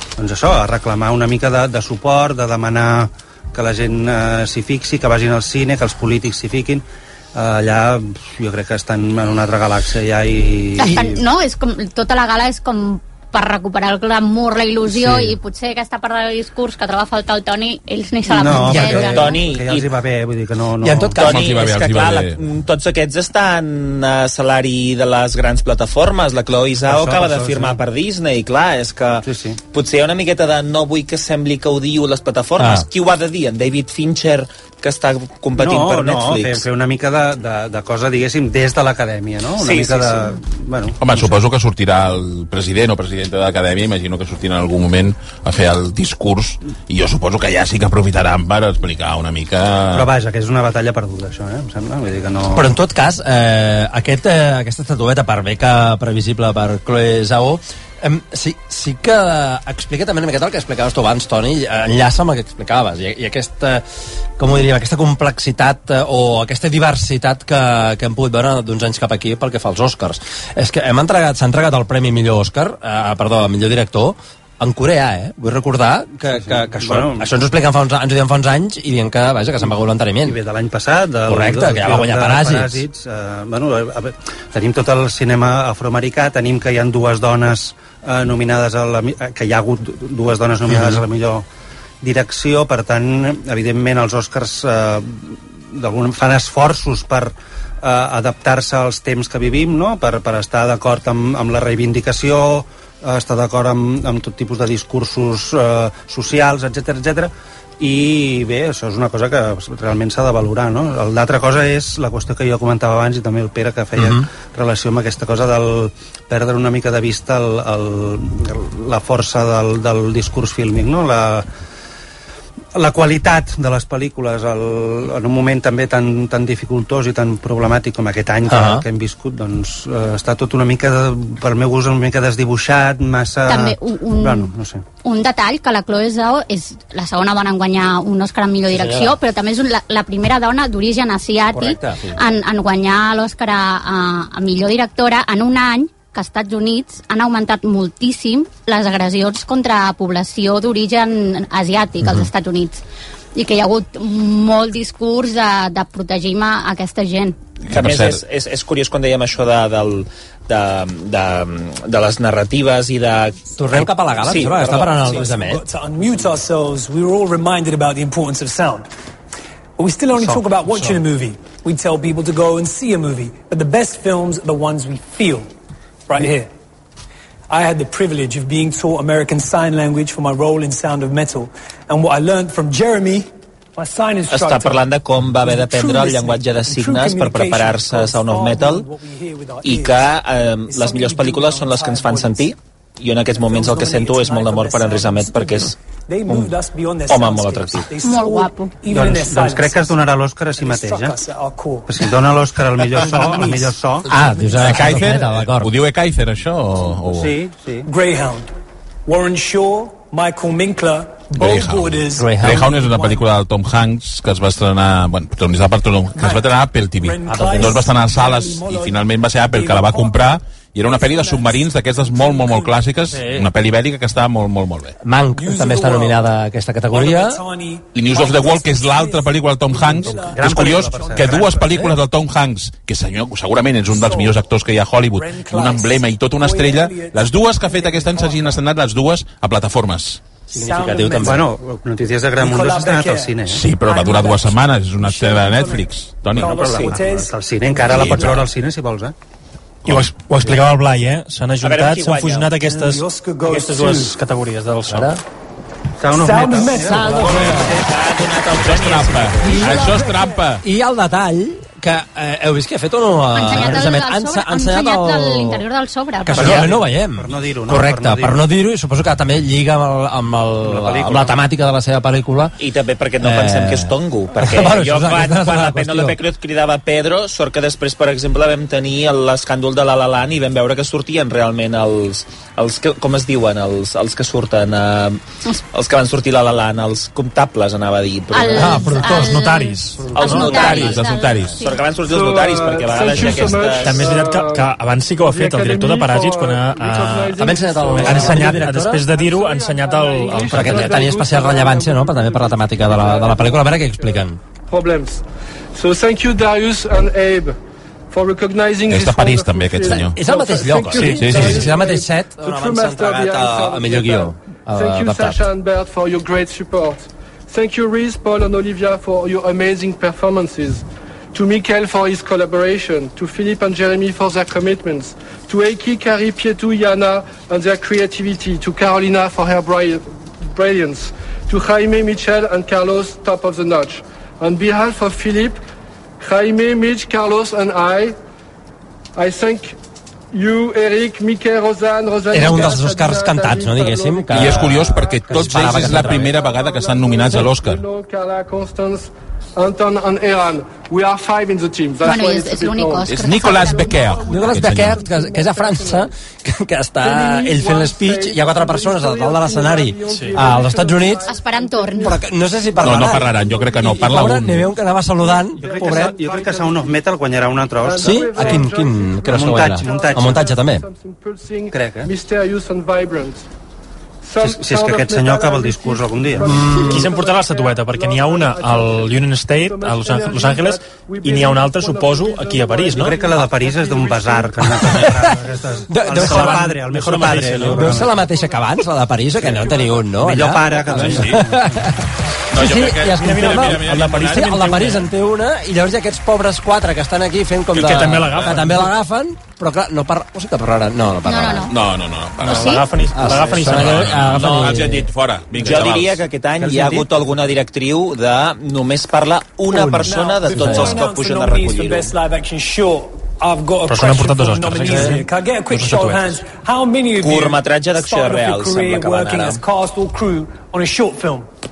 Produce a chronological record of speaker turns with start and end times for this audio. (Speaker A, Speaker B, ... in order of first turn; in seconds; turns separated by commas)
Speaker A: 0.2-11.2, Speaker B: 10.8-19.4, Speaker A: 14.9-15.2, Speaker A: 18.3-21.2, Speaker C: 18.5-19.2, Speaker D: 19.0-19.9, Speaker C: 20.8-21.2, Speaker D: 21.2-36.6, Speaker E: 21.2-22.4, Speaker A: 26.9-27.8, Speaker A: 29.2-29.6, Speaker C: 32.6-32.9, Speaker A: 35.6-41.4, Speaker D: 39.6-40.4, Speaker E: 41.0-50.1, Speaker A: 49.9-52.8, Speaker C: 52.5-63.9, Speaker C: 64.4-80.4, Speaker A: 76.3-77.3, Speaker A: 80.2-91.5, Speaker C: 81.3-82.8, Speaker C: 90.7-91.0, Speaker A: 92.0-121.5, Speaker C: 114.0-114.2, Speaker A: 122.8-134.8, Speaker C: 128.5-128.8, Speaker B: 133.5-134.5, Speaker B: 135.0-152.8, Speaker C: 138.7-139.2, Speaker C: 141.5-142.2, Speaker C: 152.0-152.3, Speaker B: 153.3-157.4, Speaker E: 157.6-158.2, Speaker D: 157.7-165.2, Speaker C: 163.6-165.6, Speaker F: 164.3-168.9, Speaker F: 169.8-175.5, Speaker A: 170.2-170.8, Speaker F: 176.1-176.5, Speaker F: 177.5-184.8, Speaker D: 184.3-188.9, Speaker F: 185.5-190.1, Speaker D: 189.6-195.8, Speaker F: 190.7-192.5, Speaker F: 193.3-200.0, Speaker D: 196.3-196.5, Speaker D: 197.1-197.9, Speaker B: 198.0-198.7, Speaker A: 198.9-201.2, Speaker F: 200.6-202.1, Speaker A: 201.9-204.1, Speaker F: 203.0-203.7, Speaker C: 204.1-205.7, Speaker E: 204.6-207.3, Speaker A: 207.1-207.9, Speaker F: 207.8-208.5, Speaker F: 209.1-213.2, Speaker E: 211.4-225.0, Speaker C: 212.2-212.7, Speaker F: 216.2-223.1, Speaker C: 217.3-217.8, Speaker C: 223.1-223.5, Speaker C: 225.0-227.4, Speaker F: 225.3-226.2, Speaker F: 226.9-231.9, Speaker E: 227.9-240.2, Speaker A: 230.2-231.7, Speaker F: 233.9-234.5, Speaker F: 235.1-238.6, Speaker F: 240.5-241.4, Speaker C: 240.5-241.5, Speaker A: 241.2-243.7, Speaker F: 242.4-248.4, Speaker E: 243.5-246.5, Speaker A: 246.4-249.2, Speaker D: 246.6-247.0, Speaker E: 247.9-248.4, Speaker G: 249.9-255.2, Speaker D: 251.6-252.7, Speaker F: 252.7-254.2, Speaker C: 254.9-255.2, Speaker A: 256.0-257.4, Speaker F: 256.1-257.7, Speaker C: 256.6-257.8, Speaker E: 257.2-257.6, Speaker D: 257.3-259.7, Speaker E: 258.6-260.6, Speaker F: 259.4-260.4, Speaker C: 260.6-265.6, Speaker B: 263.3-266.7, Speaker C: 266.3-272.6, Speaker A: 266.4-268.4, Speaker A: 270.6-271.4, Speaker D: 272.6-285.2, Speaker C: 273.2-276.2, Speaker D: 285.7-289.1, Speaker B: 288.3-291.8, Speaker C: 288.6-289.4, Speaker G: 288.9-290.8, Speaker D: 290.1-291.0, Speaker E: 290.3-291.6, Speaker D: 291.6-294.1, Speaker H: 292.1-294.7, Speaker G: 293.3-301.0, Speaker H: 295.3-305.2, Speaker C: 297.4-299.1, Speaker C: 300.4-304.4, Speaker H: 305.7-307.6, Speaker H: 308.1-335.6, Speaker E: 308.9-310.2, Speaker C: 309.9-315.5, Speaker E: 311.0-311.7, Speaker H: 336.2-338.2, Speaker H: 339.2-339.8, Speaker H: 340.3-345.4, Speaker C: 342.3-346.4, Speaker E: 344.3-347.8, Speaker H: 346.0-356.1, Speaker B: 352.0-354.1, Speaker E: 353.1-355.0, Speaker C: 354.2-361.3, Speaker H: 357.0-362.2, Speaker B: 361.3-362.2, Speaker C: 361.9-366.2, Speaker E: 362.8-364.7, Speaker H: 363.6-363.9, Speaker H: 365.2-366.9, Speaker A: 365.6-368.7, Speaker H: 367.8-373.5, Speaker C: 368.0-370.8, Speaker A: 369.3-370.5, Speaker A: 371.7-372.1, Speaker H: 374.2-384.6, Speaker A: 374.4-376.6, Speaker C: 376.4-377.1, Speaker G: 376.7-383.2, Speaker A: 382.9-388.2, Speaker C: 384.9-385.3, Speaker C: 385.9-392.0, Speaker G: 386.1-387.9, Speaker A: 389.5-391.9, Speaker E: 391.0-391.4, Speaker E: 392.5-394.6, Speaker C: 392.5-401.8, Speaker G: 393.2-395.1, Speaker G: 397.7-398.9, Speaker B: 401.2-401.7, Speaker E: 401.7-402.8, Speaker G: 402.4-404.3, Speaker B: 402.4-402.9, Speaker C: 403.1-405.1, Speaker E: 403.6-406.2, Speaker D: 405.6-412.1, Speaker A: 406.6-407.1, Speaker F: 409.7-421.5, Speaker C: 410.5-411.0, Speaker G: 413.9-416.3, Speaker C: 414.9-415.2, Speaker D: 417.2-419.6